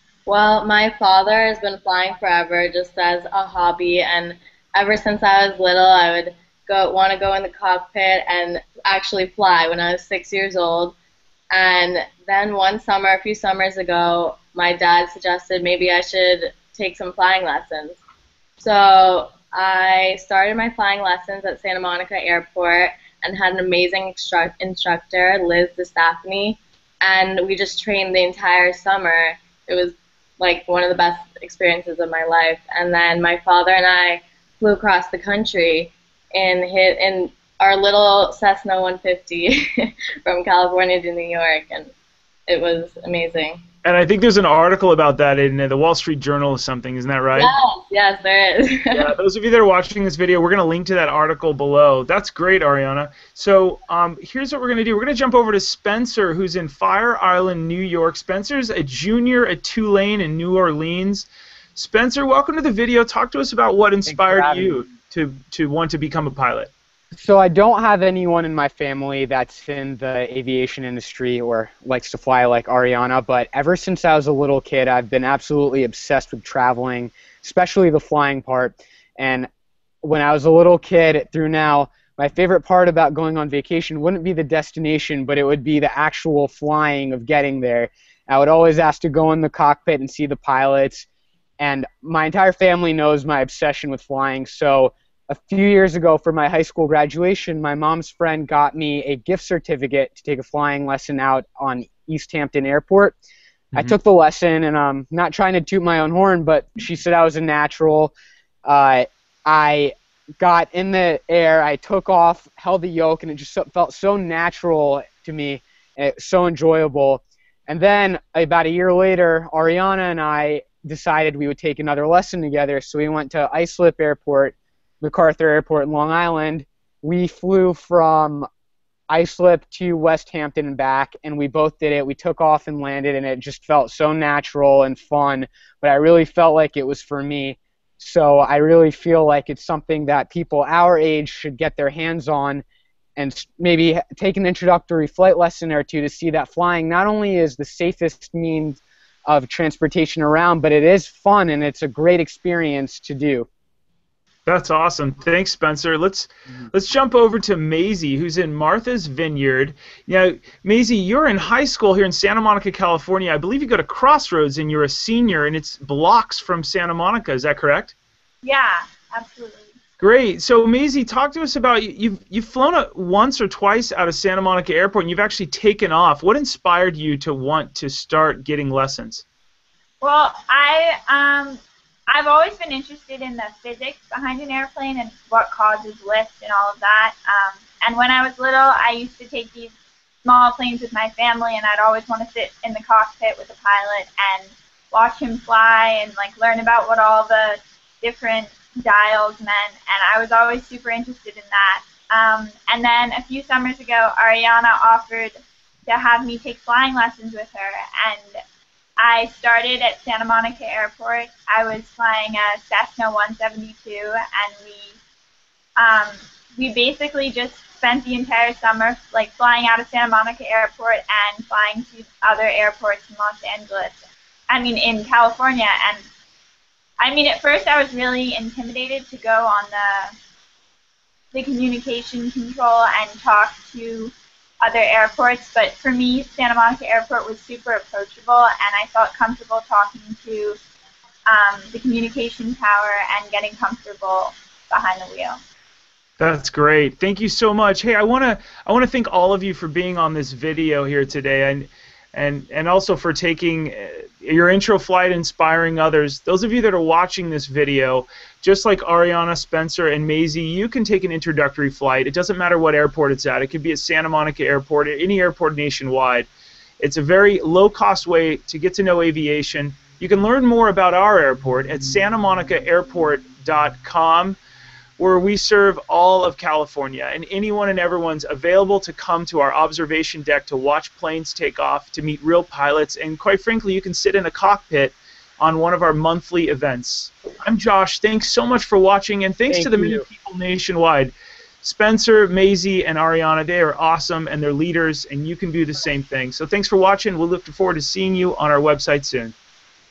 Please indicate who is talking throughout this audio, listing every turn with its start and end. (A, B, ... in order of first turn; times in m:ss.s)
0:00.3-0:10.9 A
0:11.5-0:18.0 A
0:18.6-0:41.9 A
0:42.5-0:43.6 A
0:43.8-0:47.5 B
0:47.4-0:49.1 A
0:48.9-1:06.7 B
1:04.0-1:04.8 C
1:07.1-1:19.5 C
1:20.0-1:31.0 C
1:31.6-1:43.2 C
1:43.7-1:48.1 C
1:48.6-2:08.5 C
2:09.1-2:22.6 C
2:23.2-2:33.5 C
2:34.4-2:47.9 B
2:48.4-2:49.7 D
2:50.0-2:59.2 B
3:00.0-3:28.4 D
3:29.0-3:35.0 D
3:35.8-3:46.0 D
3:47.0-3:50.1 D
3:51.3-4:00.6 D
4:01.3-4:05.4 D
4:06.2-4:26.3 B
4:26.8-4:34.4 B
4:35.0-4:59.3 B
4:49.5-4:50.0 C